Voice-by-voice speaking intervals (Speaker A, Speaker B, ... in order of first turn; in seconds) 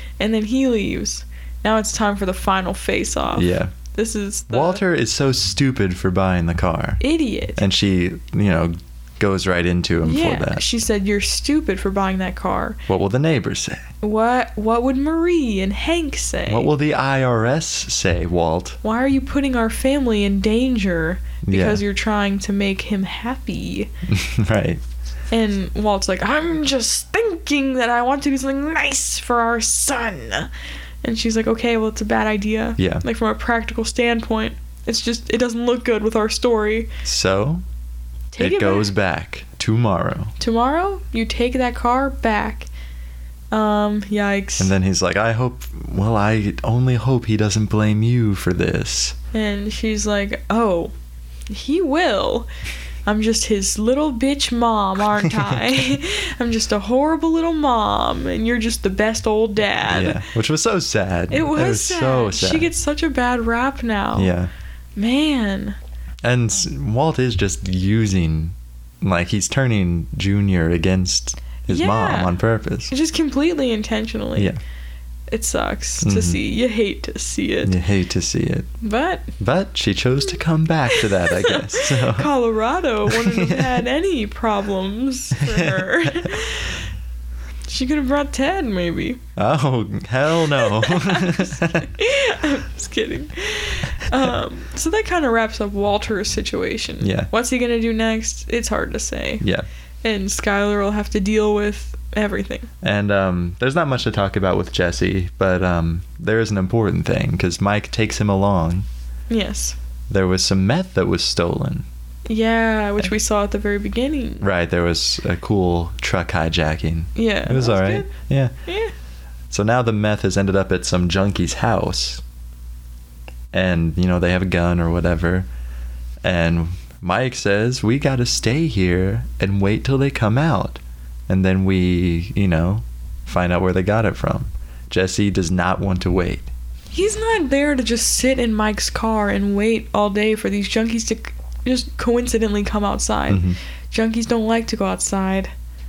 Speaker A: 0.2-4.8, 7.0-7.6, 10.0-12.8, 14.0-16.7, 18.8-23.9, 25.3-30.5, 31.0-36.9, 38.3-38.9, 40.4-42.7, 43.5-44.7, 49.3-50.9, 51.5-52.5, 53.0-60.2, 61.3-64.3, 65.0-65.8, 71.7-72.3, 72.9-74.5, 75.3-77.7, 78.8-79.3, 80.9-86.8, 87.7-89.2, 90.5-99.5, 100.0-102.7, 109.3-109.8, 112.3-114.4, 117.1-118.1, 118.7-118.9, 136.9-145.5
Speaker B: 3.3-3.7, 4.5-7.0, 7.6-10.7, 12.9-13.9, 16.5-18.8, 21.4-21.8, 24.1-24.8, 32.8-33.0, 37.0-37.6, 38.4-40.3, 44.6-49.1, 55.2-55.6, 59.9-62.7, 64.1-64.5, 66.2-72.9, 76.0-76.4, 77.6-78.7, 79.4-82.3, 83.1-83.8, 85.4-86.3, 89.3-91.9, 97.0-97.3, 99.4-99.7, 102.8-108.8, 110.1-111.8, 114.4-118.5, 119.5-122.2, 123.5-125.5, 126.2-136.5, 143.3-143.6